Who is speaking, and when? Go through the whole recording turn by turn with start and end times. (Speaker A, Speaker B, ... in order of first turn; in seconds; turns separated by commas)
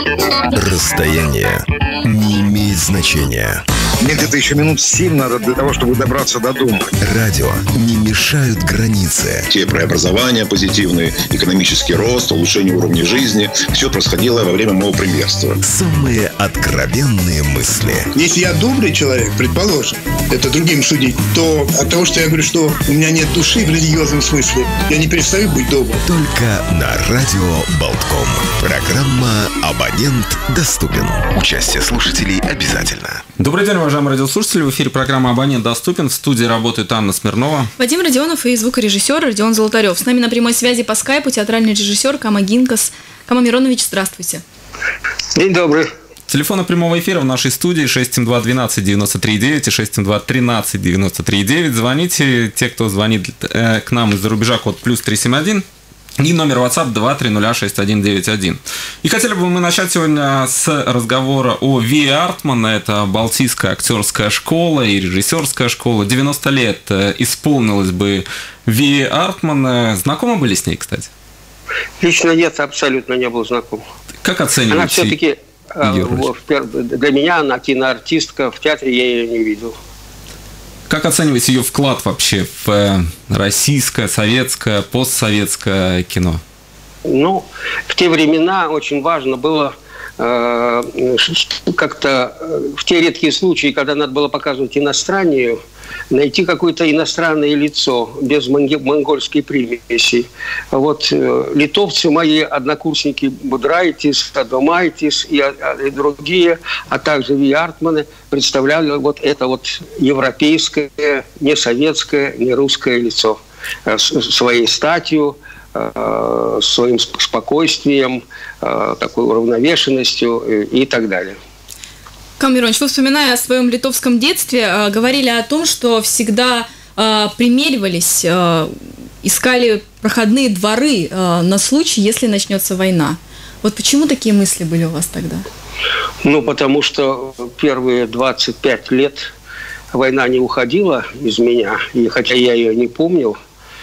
Speaker A: 0.5-3.6, Speaker B: 4.0-6.9, Speaker A: 7.0-9.5, Speaker C: 9.5-15.6, Speaker A: 15.6-18.1, Speaker D: 18.1-26.0, Speaker A: 26.1-33.2, Speaker E: 33.4-37.7, Speaker F: 37.8-44.4, Speaker G: 45.3-45.9, Speaker E: 46.3-55.6, Speaker E: 56.2-71.1, Speaker G: 72.0-73.8, Speaker E: 74.2-75.2, Speaker G: 74.7-79.8, Speaker E: 75.8-76.3, Speaker E: 80.9-86.4, Speaker G: 87.1-121.4, Speaker F: 122.4-135.5, Speaker G: 136.2-139.3, Speaker G: 139.9-143.4